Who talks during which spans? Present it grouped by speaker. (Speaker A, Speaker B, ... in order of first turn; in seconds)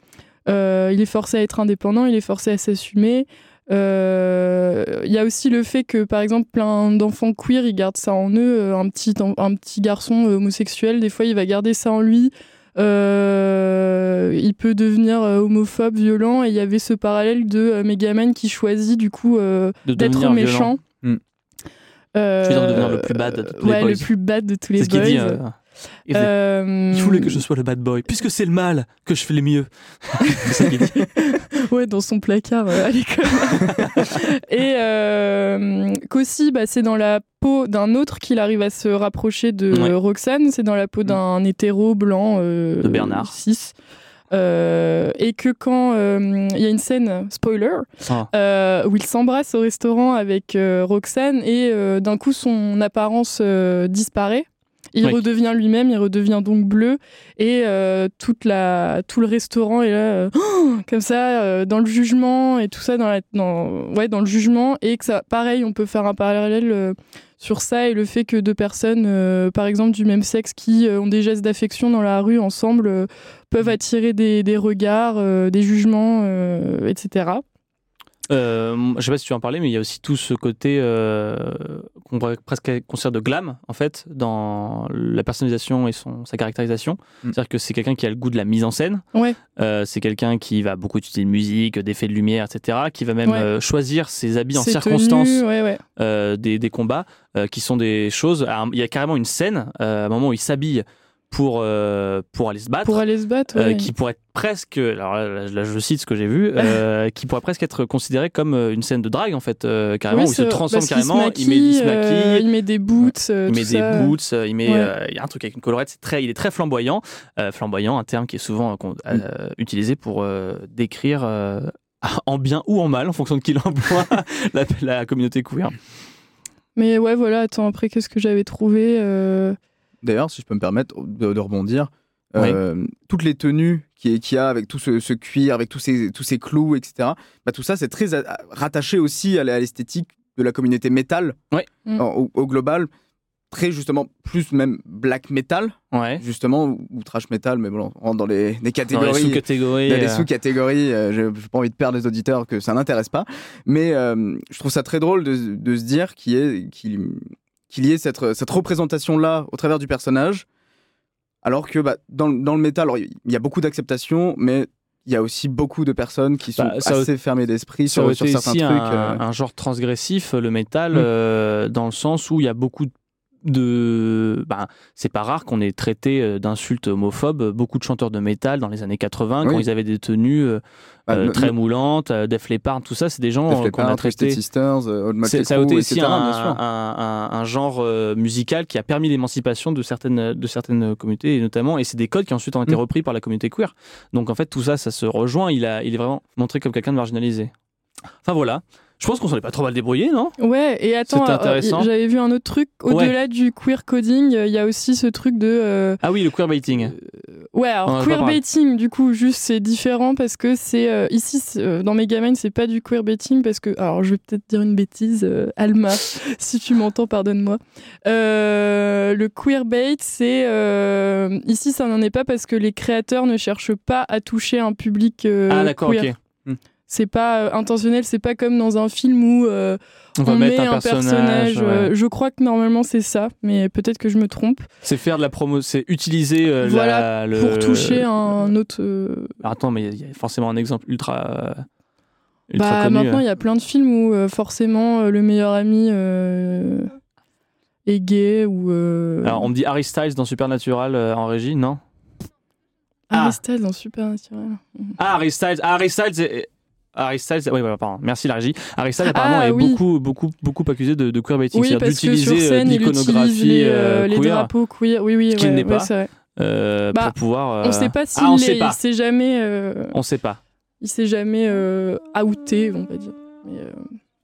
Speaker A: 0.5-20.8, 22.1-25.4, 26.1-27.4, 30.3-43.7, 44.3-77.4, 94.5-95.8, 102.8-103.9, 110.1-114.1, 114.7-114.9, 126.8-129.6, 200.4-206.0, 207.5-226.1, 226.9-234.7, 236.6-239.4, 242.6-246.9, 247.9-249.5, 253.1-255.0, 259.0-259.8, 261.5-266.1, 266.9-270.0, 270.8-273.8
Speaker B: 19.9-20.7, 22.4-24.1, 24.8-25.6, 26.9-31.1, 33.6-34.1, 42.8-43.3, 78.3-89.0, 89.6-95.4, 96.0-112.5, 113.5-125.8, 145.9-146.2, 148.9-150.3, 166.6-167.1, 167.9-172.9, 173.4-184.4, 185.2-197.5, 198.2-200.3, 201.1-201.9, 206.0-206.9, 207.9-208.4, 225.5-226.2, 230.2-231.9, 234.8-238.5, 239.4-241.7, 242.5-243.2, 249.2-251.8, 253.1-253.4, 255.0-264.5, 265.3-268.8, 269.9-270.4
Speaker C: 130.0-141.4, 142.0-142.9, 143.5-160.4, 161.4-169.2, 181.1-181.5, 183.5-186.6